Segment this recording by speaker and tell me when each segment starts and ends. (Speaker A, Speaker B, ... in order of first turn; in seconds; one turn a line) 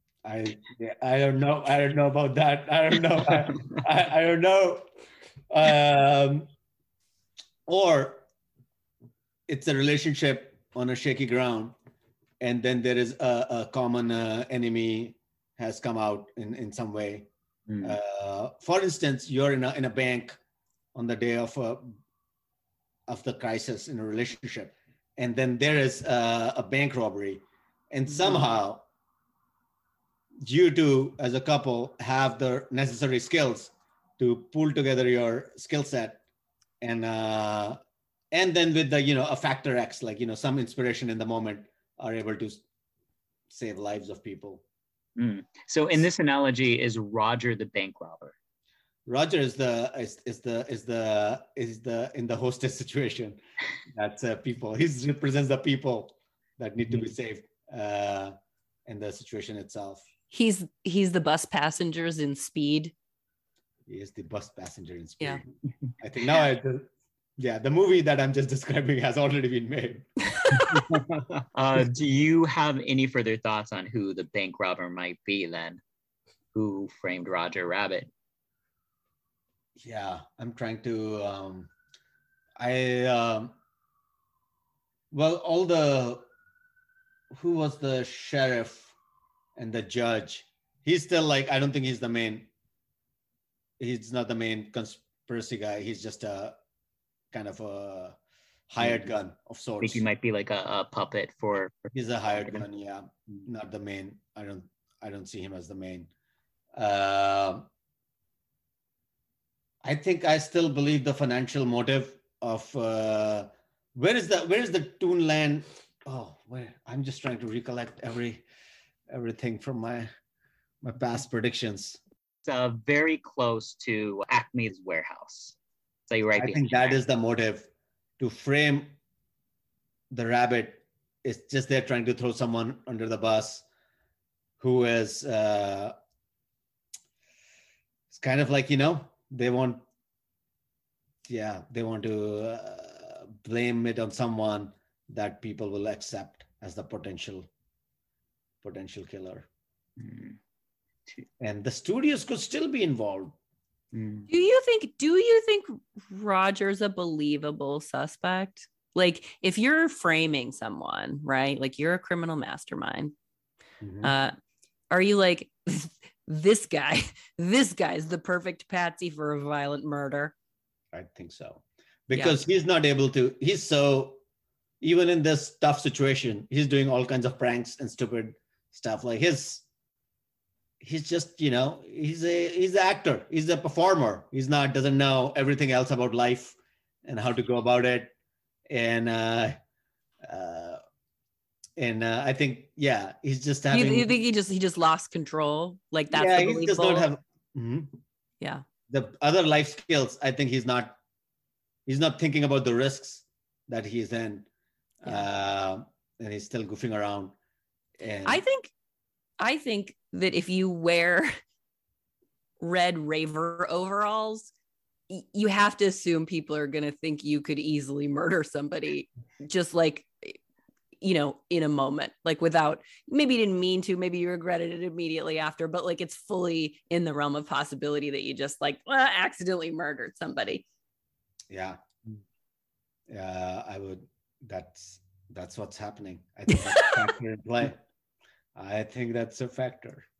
Speaker A: 0.2-4.9
Speaker A: 5.5-6.5
Speaker A: 7.7-8.2
Speaker A: 9.5-11.7
Speaker A: 12.4-17.3
Speaker B: 17.7-18.0
Speaker A: 17.8-20.4
Speaker A: 20.9-21.9
Speaker A: 23.1-28.8
Speaker A: 30.4-36.2
Speaker A: 36.8-37.8
Speaker A: 38.3-42.6
Speaker A: 43.5-44.6
Speaker B: 45.1-48.3
Speaker A: 49.1-53.4
Speaker A: 53.9-58.4
Speaker A: 58.9-60.0
Speaker C: 60.3-62.9
Speaker A: 63.9-70.1
Speaker C: 70.3-70.8
Speaker B: 70.7-75.8
Speaker B: 76.5-78.1
Speaker A: 79.8-81.7
Speaker A: 82.6-83.5
Speaker A: 85.1-86.2
Speaker A: 87.3-88.9
Speaker A: 89.6-92.5
Speaker A: 93.8-96.6
Speaker A: 97.3-98.2
Speaker A: 98.7-100.0
Speaker B: 98.8-99.1
Speaker B: 99.8-102.6
Speaker A: 101.9-106.1
Speaker A: 106.8-107.7
Speaker A: 109.8-118.4
Speaker A: 119.1-120.1
Speaker A: 120.8-122.0
Speaker B: 122.4-125.6
Speaker B: 126.1-127.0
Speaker A: 126.3-127.7
Speaker A: 128.2-128.9
Speaker A: 130.1-133.6
Speaker A: 134.6-135.9
Speaker A: 138.1-139.8
Speaker A: 141.3-147.5
Speaker A: 148.6-149.5
Speaker B: 150.0-150.4
Speaker A: 151.4-153.3
Speaker B: 153.9-154.3
Speaker C: 154.3-163.1
Speaker A: 163.8-164.1
Speaker C: 164.0-164.3
Speaker C: 164.9-170.3
Speaker A: 170.9-174.2
Speaker C: 172.1-172.4
Speaker A: 174.8-179.6
Speaker A: 180.8-188.1
Speaker A: 188.7-189.6
Speaker A: 190.2-190.8
Speaker A: 191.8-194.1
Speaker C: 193.7-197.1
Speaker A: 196.1-198.0
Speaker A: 198.9-201.0
Speaker A: 201.9-204.4
Speaker A: 205.0-207.3
Speaker A: 208.0-208.4
Speaker C: 208.2-208.7
Speaker C: 209.4-211.3
Speaker C: 212.6-214.5
Speaker C: 215.1-220.4
Speaker C: 221.0-230.6
Speaker A: 231.5-231.8
Speaker A: 233.1-237.8
Speaker C: 236.5-236.9
Speaker A: 238.6-240.1